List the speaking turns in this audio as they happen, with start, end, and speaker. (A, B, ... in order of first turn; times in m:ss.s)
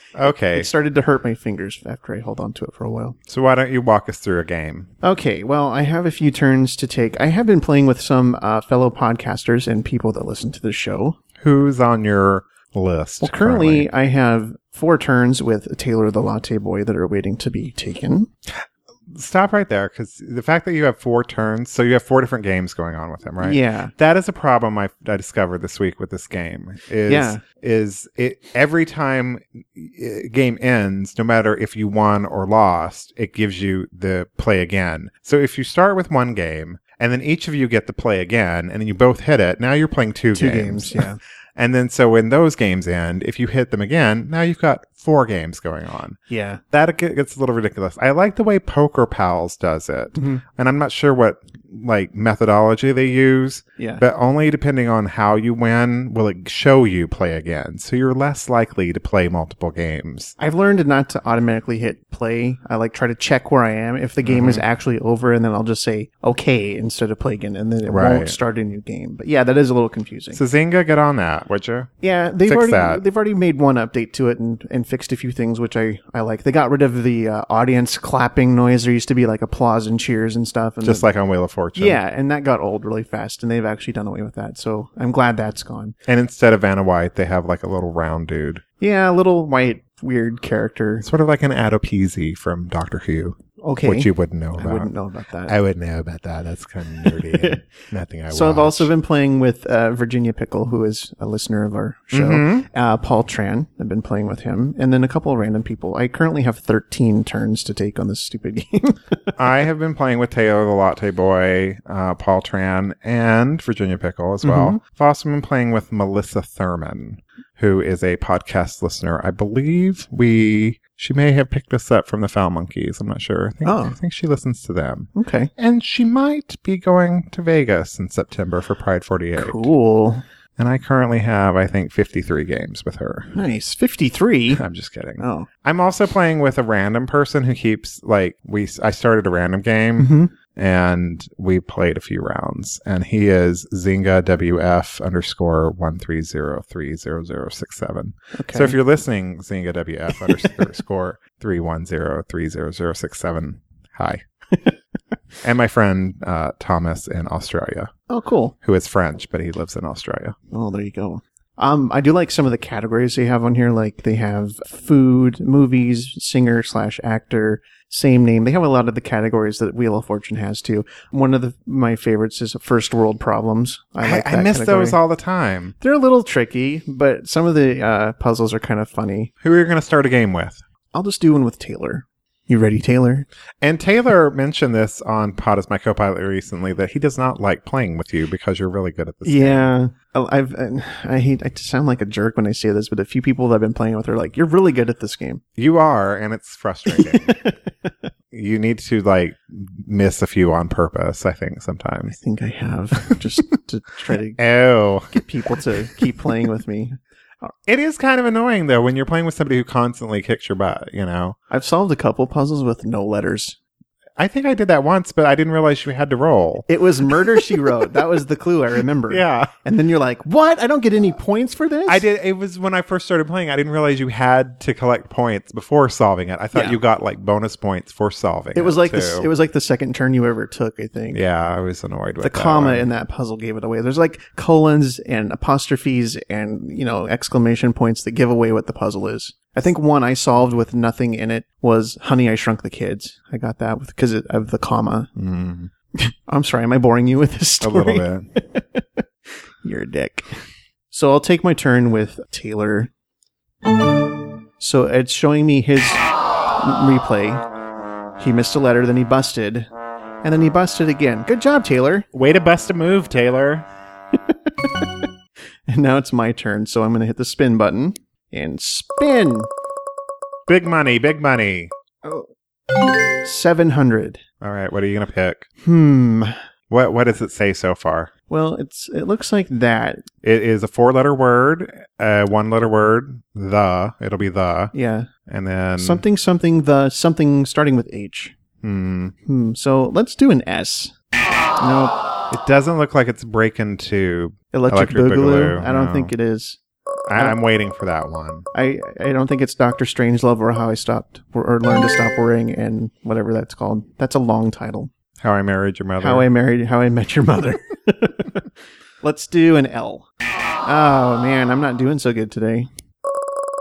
0:00.2-0:00.7 A
0:00.5-0:03.2 B
0:03.3-0:04.9 A
0:05.0-0:11.2 B
0:11.4-0:13.9 A
0:13.2-0:18.3 B
0:18.6-0:46.2 A
0:23.4-0:23.9 B
0:27.1-0:27.4 B
0:40.3-0:41.2 B
0:46.3-0:46.6 B
0:46.7-1:00.3 A
0:50.2-0:50.4 B
0:53.8-0:54.0 B
1:00.4-1:10.4 B
1:04.2-1:04.6 A
1:07.9-1:08.4 A
1:10.3-1:11.9 A
1:12.0-1:21.1 B
1:12.4-1:13.0 A
1:20.8-1:22.0 A
1:21.8-1:26.0 B
1:26.1-1:28.6 A
1:28.8-1:31.1 B
1:31.0-1:34.9 A
1:33.6-1:35.6 B
1:35.5-1:38.9 A
1:37.0-1:37.7 B
1:38.3-1:49.2 B
1:42.1-1:42.7 A
1:49.4-2:09.7 A
1:54.4-1:54.8 B
2:03.6-2:04.0 B
2:05.2-2:05.5 B
2:09.4-2:10.2 B
2:10.6-2:13.3 A
2:13.3-2:14.6 B
2:14.5-2:34.2 A
2:15.2-2:15.5 B
2:20.0-2:20.3 B
2:28.4-2:28.8 B
2:35.4-2:37.9 A
2:38.1-2:38.6 B
2:38.6-2:40.4 A
2:40.5-2:55.0 B
2:54.0-2:55.8 A
2:55.8-2:59.3 B
2:59.4-3:00.6 A
3:00.9-3:03.3 B
3:03.6-3:09.7 A
3:09.2-3:15.4 B
3:15.6-3:17.4 A
3:16.9-3:17.9 B
3:18.3-3:22.2 A
3:22.2-3:24.4 B
3:24.4-3:25.2 A
3:25.1-3:27.5 B
3:27.7-3:31.4 A
3:31.5-3:33.6 B
3:34.2-3:37.7 A
3:36.7-3:42.0 B
3:39.1-3:39.5 A
3:41.9-3:49.3 A
3:46.5-3:46.8 B
3:48.6-3:51.2 B
3:51.1-3:52.9 A
3:52.2-4:05.1 B
4:05.2-4:05.7 A
4:06.0-4:09.0 B
4:07.6-4:08.3 A
4:09.6-4:10.4 B
4:10.9-4:12.9 B
4:14.6-4:17.4 B
4:18.2-4:19.7 B
4:20.2-4:22.1 B
4:22.1-4:23.6 A
4:24.2-4:24.8 B
4:25.7-4:29.5 B
4:30.5-4:31.7 A
4:33.2-4:34.2 B
4:34.4-4:35.5 A
4:35.6-4:36.4 B
4:36.7-4:38.1 A
4:38.3-4:40.1 B
4:40.2-4:44.7 A
4:44.7-4:45.1 B
4:45.3-4:46.0 A
4:45.8-4:48.4 B
4:48.6-4:49.1 A
4:49.3-4:50.9 B
4:51.6-4:52.0 B
4:52.3-4:56.1 A
4:54.5-4:56.6 B
4:57.1-4:58.5 A
4:58.5-5:04.9 B
5:05.2-5:06.3 A
5:06.0-5:08.5 B
5:09.0-5:10.1 B
5:10.6-5:12.7 B